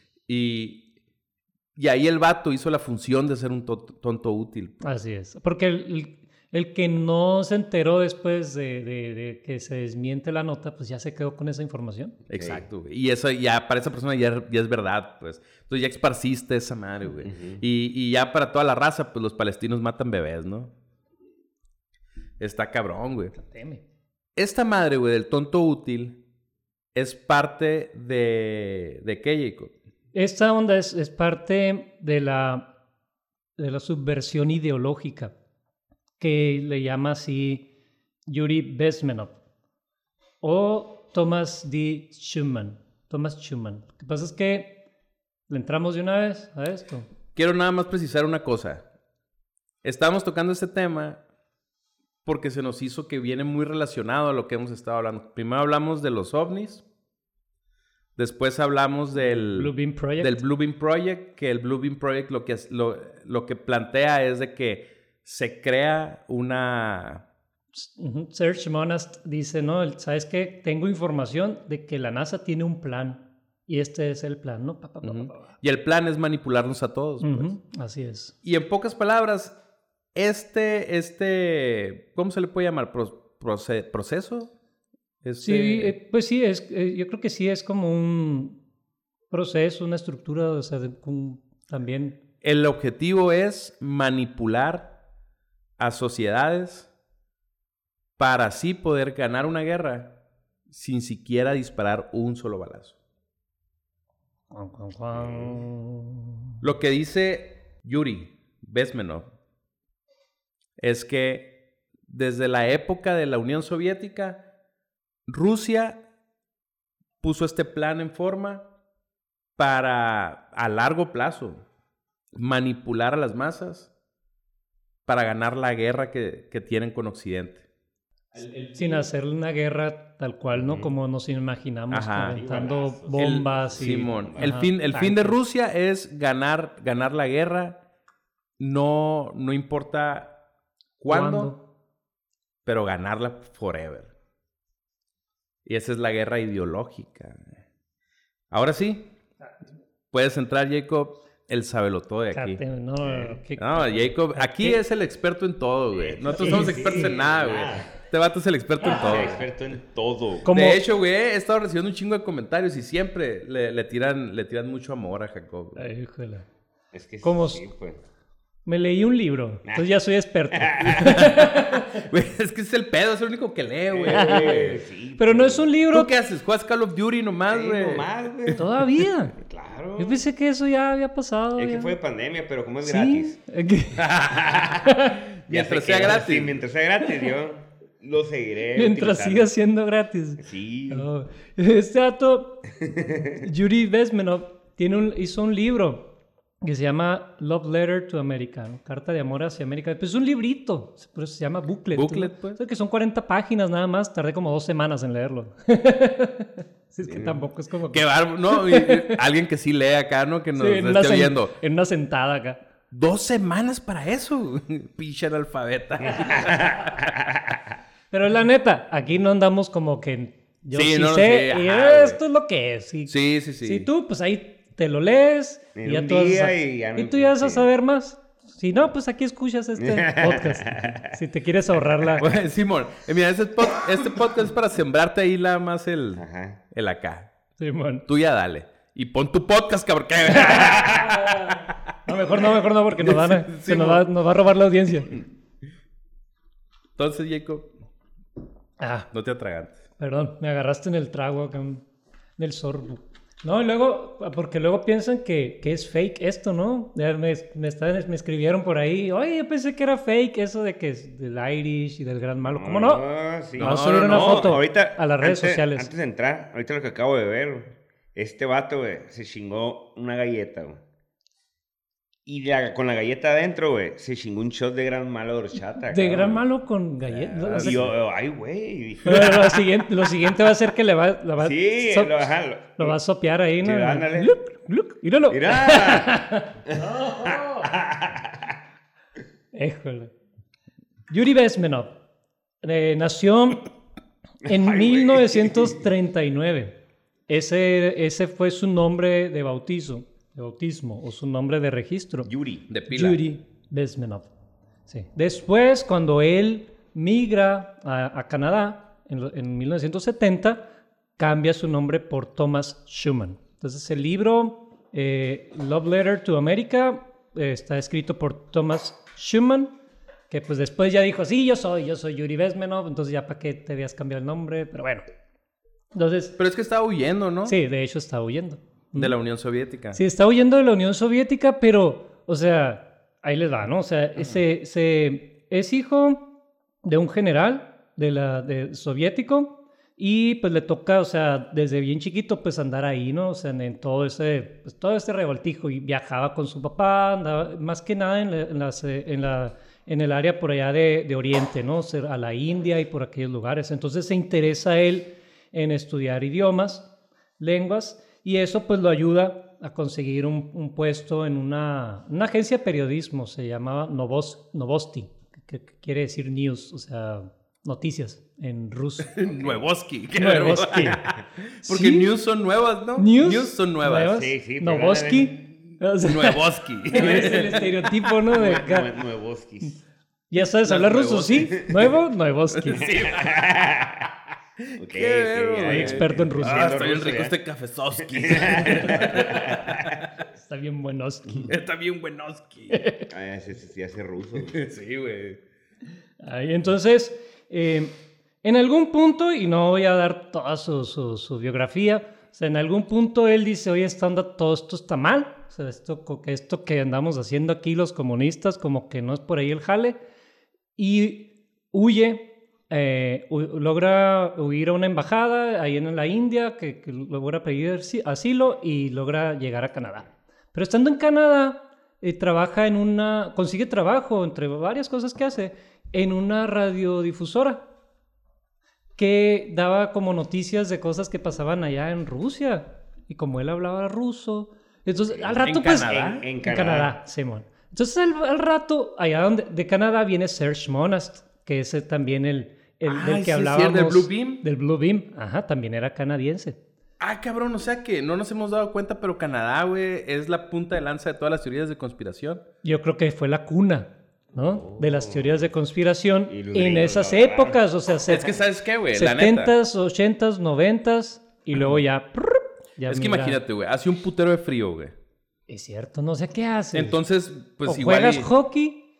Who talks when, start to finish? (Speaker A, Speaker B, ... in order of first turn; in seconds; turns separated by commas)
Speaker A: 0.3-0.8, Speaker A: 1.8-4.8, Speaker B: 4.8-12.2, Speaker A: 12.3-20.7, Speaker C: 12.3-12.7, Speaker C: 17.2-17.6, Speaker A: 22.4-23.4, Speaker B: 23.4-23.8, Speaker A: 24.4-26.2, Speaker A: 26.9-29.7, Speaker B: 30.1-32.7, Speaker B: 33.6-35.3, Speaker B: 36.2-37.7, Speaker B: 38.2-39.3, Speaker B: 40.4-44.8, Speaker B: 45.5-47.1, Speaker A: 47.3-48.9, Speaker A: 49.8-51.2, Speaker A: 52.2-56.8, Speaker A: 58.2-67.2, Speaker B: 59.2-60.4, Speaker B: 67.7-75.6, Speaker A: 75.0-77.5, Speaker B: 77.2-78.3, Speaker A: 78.4-79.6, Speaker A: 80.1-84.5, Speaker A: 85.2-85.9, Speaker B: 85.4-88.6, Speaker B: 89.3-92.2, Speaker A: 92.4-94.9, Speaker A: 95.8-96.9, Speaker A: 98.2-100.2, Speaker A: 100.7-102.9, Speaker B: 104.5-106.5, Speaker C: 105.2-105.6, Speaker A: 106.6-109.3, Speaker A: 110.8-114.5, Speaker A: 115.3-116.0, Speaker A: 117.2-118.7, Speaker A: 119.6-121.6, Speaker A: 122.3-123.9, Speaker A: 125.0-127.6, Speaker A: 128.3-129.0, Speaker B: 128.8-135.4, Speaker A: 131.9-132.5, Speaker C: 132.3-134.6, Speaker A: 133.1-137.8, Speaker A: 138.6-140.3, Speaker A: 141.0-141.5, Speaker B: 141.1-141.6, Speaker A: 142.7-144.1, Speaker A: 145.7-147.6, Speaker A: 148.5-149.1, Speaker A: 150.1-152.6, Speaker B: 152.3-154.8, Speaker C: 153.1-153.4, Speaker A: 153.6-159.4, Speaker C: 156.0-157.9, Speaker B: 156.3-157.1, Speaker C: 158.8-160.5, Speaker B: 160.4-160.8, Speaker A: 160.5-165.9, Speaker B: 165.8-166.4, Speaker C: 166.9-168.0, Speaker B: 167.2-167.6, Speaker B: 168.7-172.0, Speaker C: 170.5-171.3, Speaker A: 171.0-174.8, Speaker C: 173.9-175.7, Speaker B: 174.1-174.6, Speaker B: 175.2-176.1, Speaker A: 175.9-178.1, Speaker C: 177.4-178.7, Speaker B: 178.5-179.3, Speaker C: 179.3-180.2, Speaker B: 180.0-181.9, Speaker C: 181.6-183.4, Speaker B: 182.8-184.1, Speaker C: 184.0-184.9, Speaker B: 184.8-185.2, Speaker C: 185.4-189.5, Speaker A: 185.5-186.5, Speaker B: 188.8-192.7, Speaker C: 190.4-191.1, Speaker C: 192.9-193.3, Speaker B: 193.4-209.2, Speaker A: 201.9-202.6, Speaker C: 207.1-207.4, Speaker A: 207.9-211.5, Speaker B: 210.6-212.6, Speaker A: 212.9-217.0, Speaker C: 216.1-217.6, Speaker B: 218.1-232.3, Speaker A: 220.7-222.2, Speaker A: 223.1-223.9, Speaker C: 225.8-227.7, Speaker C: 229.8-231.1, Speaker A: 232.2-237.3, Speaker C: 236.2-236.6, Speaker B: 237.6-238.1, Speaker A: 238.1-241.9, Speaker B: 240.3-241.5, Speaker C: 240.6-241.0, Speaker B: 242.0-245.2, Speaker A: 242.9-244.1, Speaker A: 246.9-247.7, Speaker B: 248.8-249.1, Speaker A: 249.1-249.8, Speaker B: 250.0-251.8, Speaker B: 252.4-263.0, Speaker C: 262.4-270.8, Speaker A: 263.6-264.6, Speaker B: 263.6-265.9, Speaker C: 272.2-276.4, Speaker B: 275.9-277.9, Speaker C: 277.2-279.8, Speaker A: 277.4-277.9, Speaker B: 279.1-287.7, Speaker C: 281.4-283.0, Speaker C: 283.6-284.3, Speaker C: 285.3-286.2, Speaker C: 286.7-288.5, Speaker B: 289.5-290.1, Speaker B: 291.1-291.9, Speaker B: 292.6-293.7, Speaker B: 294.4-296.8, Speaker C: 294.4-295.8, Speaker B: 297.3-302.3, Speaker C: 302.3-302.6, Speaker A: 302.7-303.2, Speaker B: 302.9-304.3, Speaker B: 304.9-310.6, Speaker B: 311.2-319.7, Speaker B: 320.3-325.0, Speaker B: 325.9-326.4, Speaker A: 326.4-327.6, Speaker B: 327.4-329.1, Speaker A: 328.9-330.0, Speaker B: 329.9-336.2, Speaker B: 336.8-369.2, Speaker A: 369.1-374.1, Speaker C: 369.2-369.6, Speaker B: 370.1-371.0, Speaker B: 371.6-372.1, Speaker B: 373.0-378.9, Speaker C: 374.0-375.4, Speaker A: 376.0-377.9, Speaker C: 378.3-379.8, Speaker B: 380.3-382.9, Speaker A: 380.6-381.8, Speaker C: 381.4-381.8, Speaker A: 382.5-383.4, Speaker C: 382.8-384.1, Speaker C: 384.7-387.4, Speaker A: 384.8-390.1, Speaker B: 385.6-386.7, Speaker C: 388.0-389.9, Speaker B: 390.4-391.5, Speaker A: 391.5-392.8, Speaker B: 392.7-393.1, Speaker C: 393.1-394.6, Speaker A: 394.5-395.4, Speaker B: 396.2-410.0, Speaker B: 410.8-427.6, Speaker B: 429.0-446.6, Speaker A: 435.3-436.2, Speaker C: 435.6-436.9, Speaker A: 442.9-444.4, Speaker A: 447.0-452.4, Speaker B: 452.6-458.4, Speaker C: 456.3-457.6, Speaker A: 458.1-459.5, Speaker B: 458.9-463.4, Speaker A: 462.9-464.9, Speaker B: 465.5-467.0, Speaker A: 466.7-468.3, Speaker B: 467.6-468.9